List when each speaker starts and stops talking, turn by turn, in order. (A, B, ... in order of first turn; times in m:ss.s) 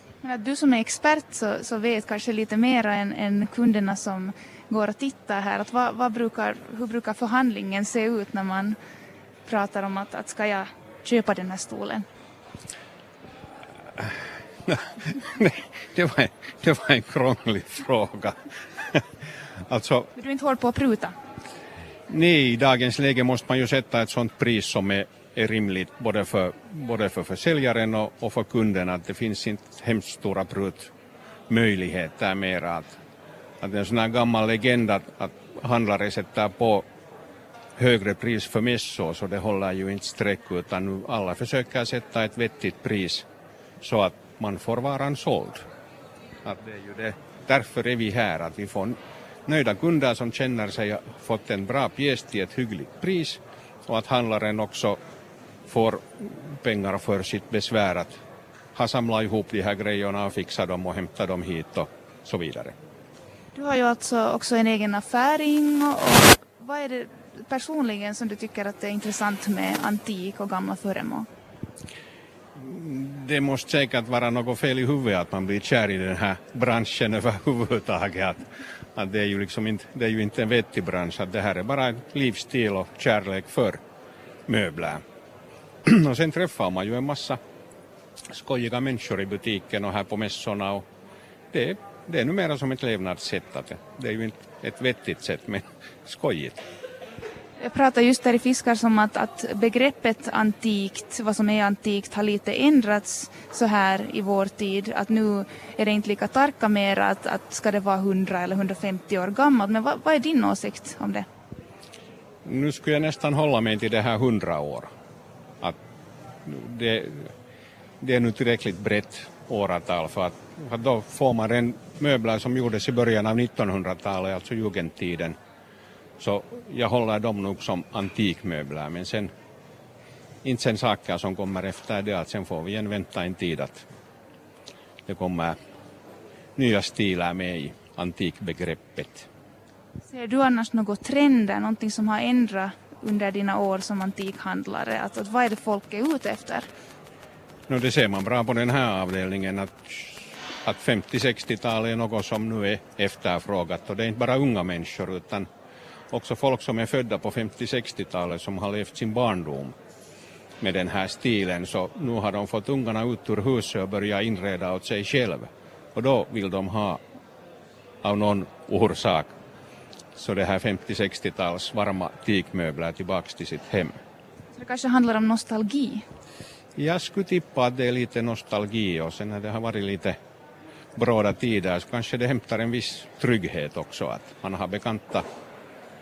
0:00.2-0:08.8 A
0:09.4-0:12.0 A
0:13.9-0:19.0 B
0:19.7-0:20.1 B
0:20.2-0:21.1 A
0:22.1-0:30.9 B
0:31.5-0:33.0 B
0:33.6-0:36.9 B
0:37.8-0:43.2 B
0:43.8-0:45.6 B
0:46.4-0:55.0 B
0:55.7-0:58.1 B
0:58.7-1:02.7 B
1:03.5-1:11.3 A
1:12.5-1:23.8 B
1:24.5-1:25.0 B
1:25.8-1:27.4 B
1:28.3-1:30.8 B
1:31.5-1:36.6 B
1:37.6-1:51.3 A
1:52.4-1:54.9 B
1:56.4-1:57.3 B
1:58.0-2:05.4 B
2:06.2-2:09.3 B
2:10.4-2:13.8 B
2:15.0-2:15.6 B
2:16.6-2:19.3 B
2:20.1-2:26.7 A
2:27.7-2:35.5 B
2:36.1-2:39.8 B
2:40.6-2:47.0 B
2:48.0-2:49.3 B
2:50.2-2:54.0 B
2:54.5-2:56.0 A
2:56.8-3:00.2 B
3:01.0-3:05.2 B